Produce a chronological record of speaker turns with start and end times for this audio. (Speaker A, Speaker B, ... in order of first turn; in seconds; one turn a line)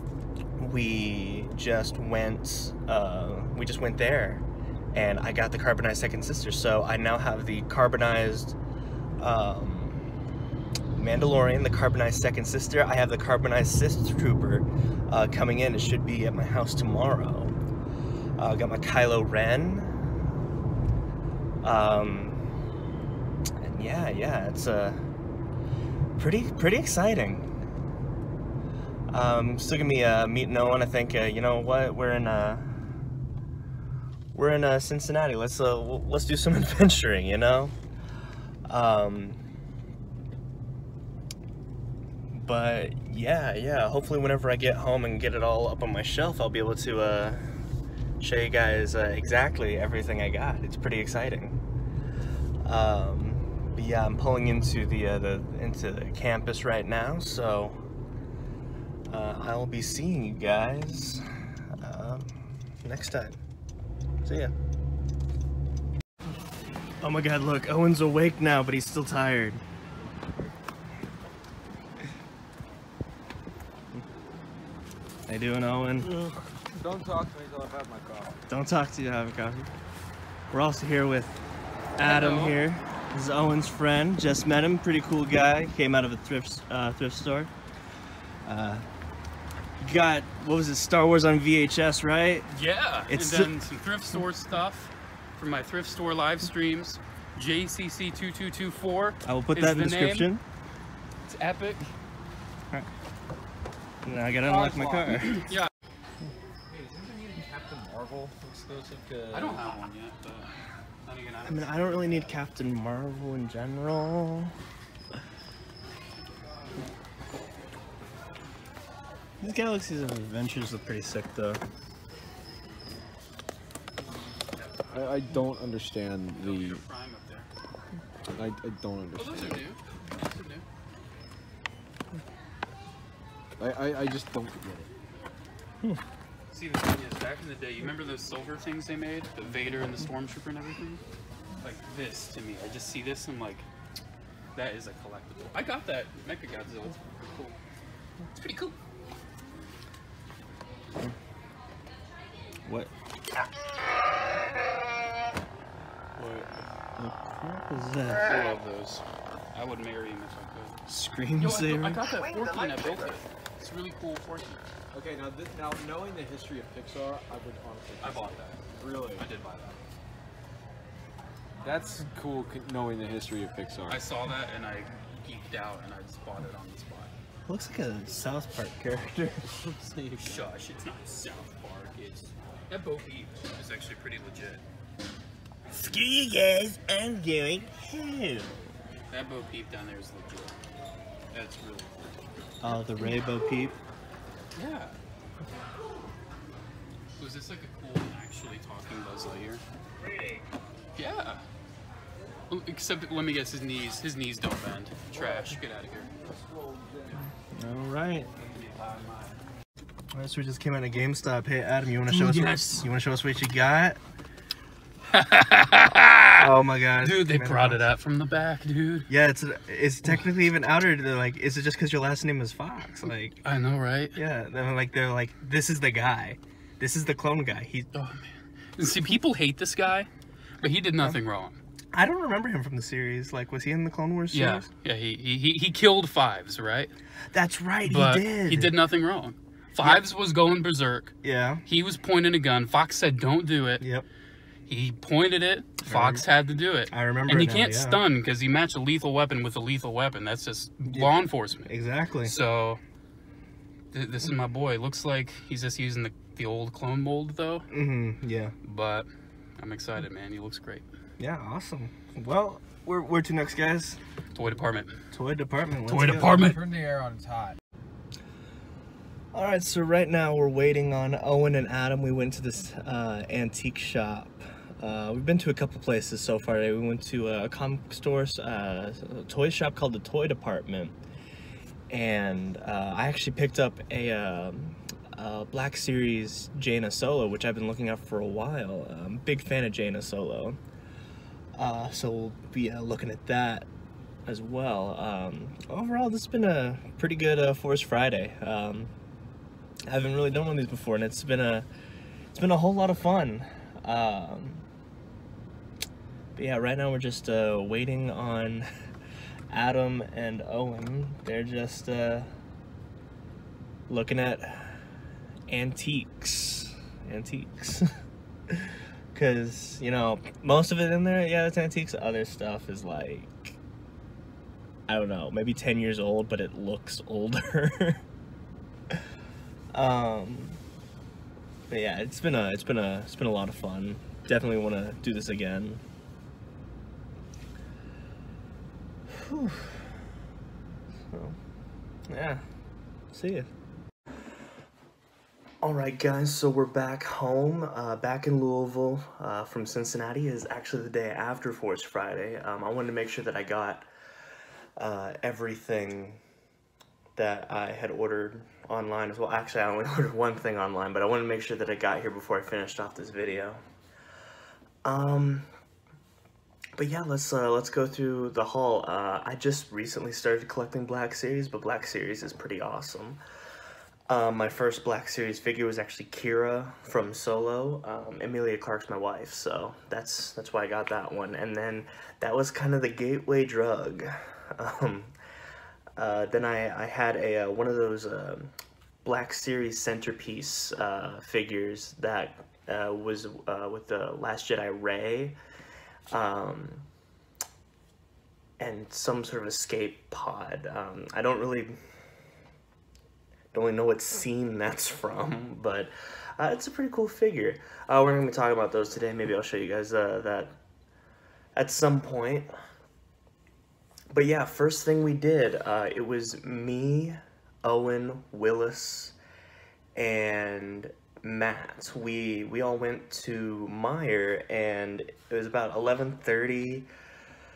Speaker A: 0.6-8.6
Speaker A: 9.2-10.1
Speaker A: 10.9-17.6
Speaker A: 18.4-20.0
Speaker A: 21.6-22.4
Speaker A: 23.6-25.0
Speaker A: 26.2-27.5
Speaker A: 29.1-32.7
Speaker A: 34.3-37.8
Speaker A: 38.7-39.4
Speaker A: 42.3-47.5
Speaker A: 48.2-51.6
Speaker A: 52.6-57.8
Speaker A: 59.1-61.2
Speaker A: 61.8-63.4
Speaker A: 64.2-64.5
Speaker A: 67.0-69.6
Speaker A: 75.3-76.1
Speaker B: 76.0-78.4
Speaker A: 78.5-79.7
Speaker A: 80.5-81.4
Speaker A: 82.0-87.5
Speaker C: 82.0-82.6
Speaker A: 88.4-88.8
Speaker A: 89.8-92.5
Speaker C: 92.5-100.3
Speaker A: 93.1-93.5
Speaker A: 99.2-100.4
Speaker C: 101.2-101.9
Speaker A: 104.0-105.5
Speaker B: 104.4-105.3
Speaker C: 105.3-105.7
Speaker B: 106.7-109.9
Speaker C: 109.3-110.5
Speaker C: 111.0-112.3
Speaker A: 111.4-114.5
Speaker A: 119.4-121.6
Speaker B: 124.9-126.8
Speaker C: 126.4-127.5
Speaker B: 128.3-129.6
Speaker C: 129.2-130.7
Speaker B: 133.6-134.9
Speaker C: 136.5-141.0
Speaker C: 141.6-143.7
Speaker C: 144.5-147.6
Speaker C: 148.3-148.7
Speaker A: 152.6-153.5
Speaker C: 156.2-156.7
Speaker A: 157.0-158.3
Speaker C: 158.0-160.8
Speaker A: 160.9-163.1
Speaker C: 161.4-164.7
Speaker B: 164.9-169.3
Speaker C: 168.0-168.6
Speaker C: 169.1-169.8
Speaker B: 171.6-174.0
Speaker C: 173.9-177.1
Speaker A: 177.5-179.5
Speaker C: 179.6-184.6
Speaker A: 185.7-188.5
Speaker C: 189.1-190.6
Speaker C: 191.3-192.1
Speaker A: 192.6-193.8
Speaker C: 194.5-194.9
Speaker C: 197.2-199.6
Speaker C: 200.9-201.4
Speaker C: 202.5-206.1
Speaker B: 206.2-207.2
Speaker A: 207.5-208.3
Speaker C: 208.4-209.3
Speaker A: 210.1-214.0
Speaker C: 212.1-212.9
Speaker C: 215.1-219.1
Speaker A: 216.4-217.8
Speaker A: 219.1-223.4
Speaker C: 223.4-224.2
Speaker A: 224.1-227.9
Speaker C: 227.9-230.1
Speaker C: 230.6-231.6
Speaker A: 231.9-234.7
Speaker C: 234.3-236.9
Speaker A: 237.3-238.7
Speaker C: 237.8-243.8
Speaker A: 241.2-241.6
Speaker A: 243.8-244.1
Speaker C: 244.7-251.7
Speaker A: 245.8-246.2
Speaker A: 246.9-248.0
Speaker A: 250.8-252.3
Speaker C: 252.2-252.8
Speaker C: 253.9-257.7
Speaker A: 257.7-258.6
Speaker C: 258.6-260.9
Speaker A: 261.2-264.0
Speaker C: 264.4-265.0
Speaker A: 265.1-266.4
Speaker C: 265.9-266.6
Speaker B: 266.2-267.6
Speaker A: 269.3-281.0
Speaker A: 281.9-290.6
Speaker A: 291.5-293.7
Speaker A: 294.2-298.9
Speaker A: 299.9-301.7
Speaker A: 302.3-304.6
Speaker A: 306.4-308.6
Speaker A: 309.5-312.3
Speaker A: 313.9-314.8
Speaker A: 315.5-317.9
Speaker A: 318.5-323.6
Speaker A: 324.9-328.0
Speaker A: 329.7-330.6
Speaker A: 331.7-335.8
Speaker A: 339.1-339.9
Speaker A: 341.1-341.4
Speaker A: 342.1-342.4
Speaker A: 343.1-343.5
Speaker A: 345.6-353.9
Speaker A: 354.8-356.2
Speaker A: 357.1-363.6
Speaker A: 364.8-365.5
Speaker A: 366.8-373.2
Speaker A: 374.1-385.1
Speaker A: 386.0-388.5
Speaker A: 389.0-395.4
Speaker A: 396.1-396.9
Speaker A: 398.6-401.7
Speaker A: 403.5-410.6
Speaker A: 411.5-412.5
Speaker A: 414.1-419.1
Speaker A: 419.9-426.9